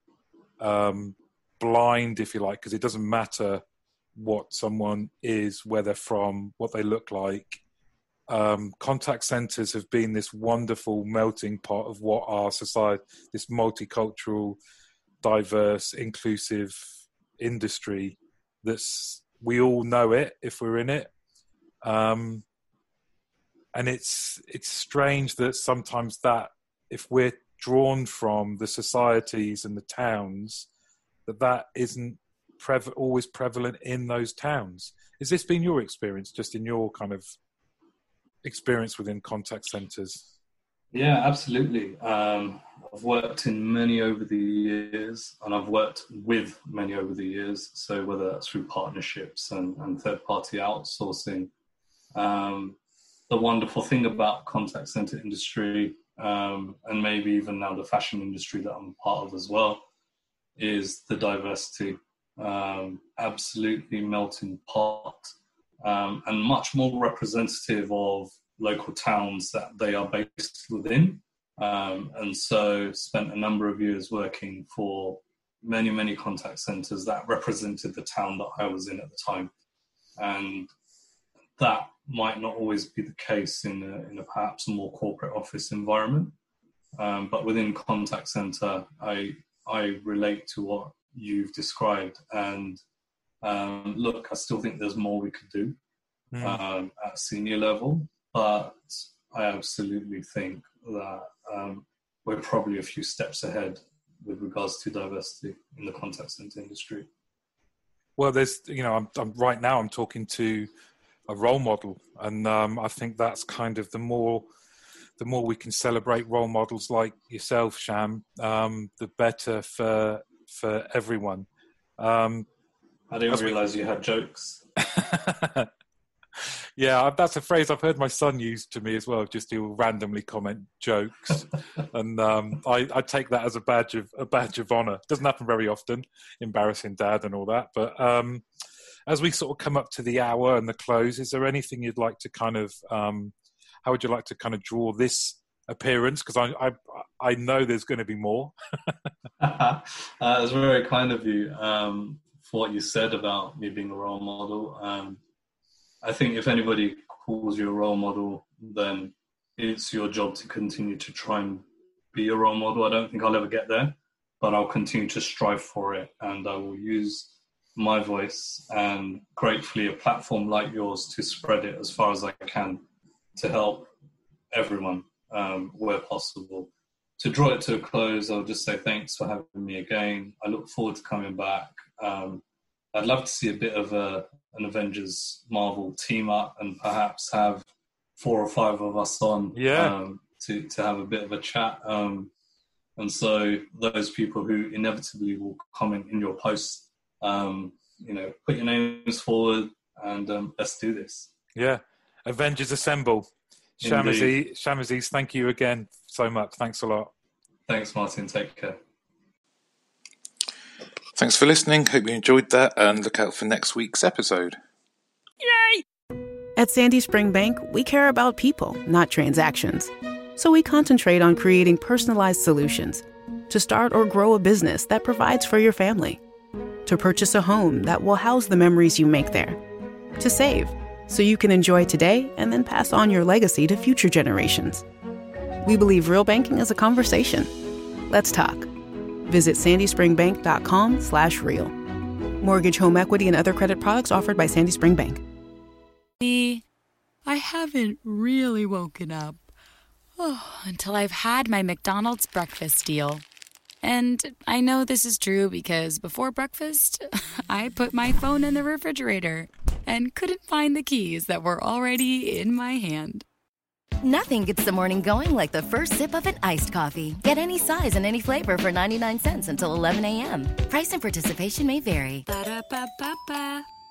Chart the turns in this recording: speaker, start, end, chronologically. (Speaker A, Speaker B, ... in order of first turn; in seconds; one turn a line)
Speaker A: 0.6-3.6
Speaker A: 4.2-7.6
Speaker A: 8.3-14.6
Speaker A: 15.2-16.9
Speaker A: 17.4-21.1
Speaker A: 21.8-22.4
Speaker A: 23.7-30.7
Speaker A: 31.3-37.3
Speaker A: 38.4-40.3
Speaker B: 40.9-51.5
Speaker B: 52.1-52.8
Speaker B: 53.3-59.8
Speaker B: 60.6-65.3
Speaker B: 65.8-79.5
Speaker B: 80.2-80.7
Speaker B: 81.6-86.3
Speaker B: 87.0-92.8
Speaker B: 93.4-95.8
Speaker A: 96.3-96.6
Speaker B: 96.4-107.1
Speaker A: 108.2-110.7
Speaker A: 111.3-114.5
Speaker A: 115.2-121.5
Speaker A: 122.0-122.5
Speaker B: 123.1-124.6
Speaker A: 123.3-123.6
Speaker A: 124.9-125.7
Speaker A: 126.4-138.4
Speaker A: 139.1-143.3
Speaker A: 143.8-149.1
Speaker B: 149.4-155.2
Speaker B: 156.0-172.8
Speaker B: 173.4-173.9
Speaker B: 174.5-182.4
Speaker B: 182.9-187.7
Speaker B: 188.2-192.3
Speaker A: 189.6-189.9
Speaker B: 193.0-201.3
Speaker A: 201.6-203.3
Speaker A: 203.8-207.1
Speaker B: 203.8-204.3
Speaker B: 207.7-208.8
Speaker C: 211.2-214.6
Speaker D: 216.6-226.2
Speaker D: 226.9-229.6
Speaker D: 230.2-234.8
Speaker D: 235.6-237.5
Speaker D: 238.1-238.7
Speaker D: 239.3-241.8
Speaker D: 242.4-245.2
Speaker E: 246.2-246.7
Speaker E: 247.2-249.4
Speaker E: 250.2-253.2
Speaker E: 253.8-263.2
Speaker F: 264.0-272.2
Speaker E: 272.3-273.6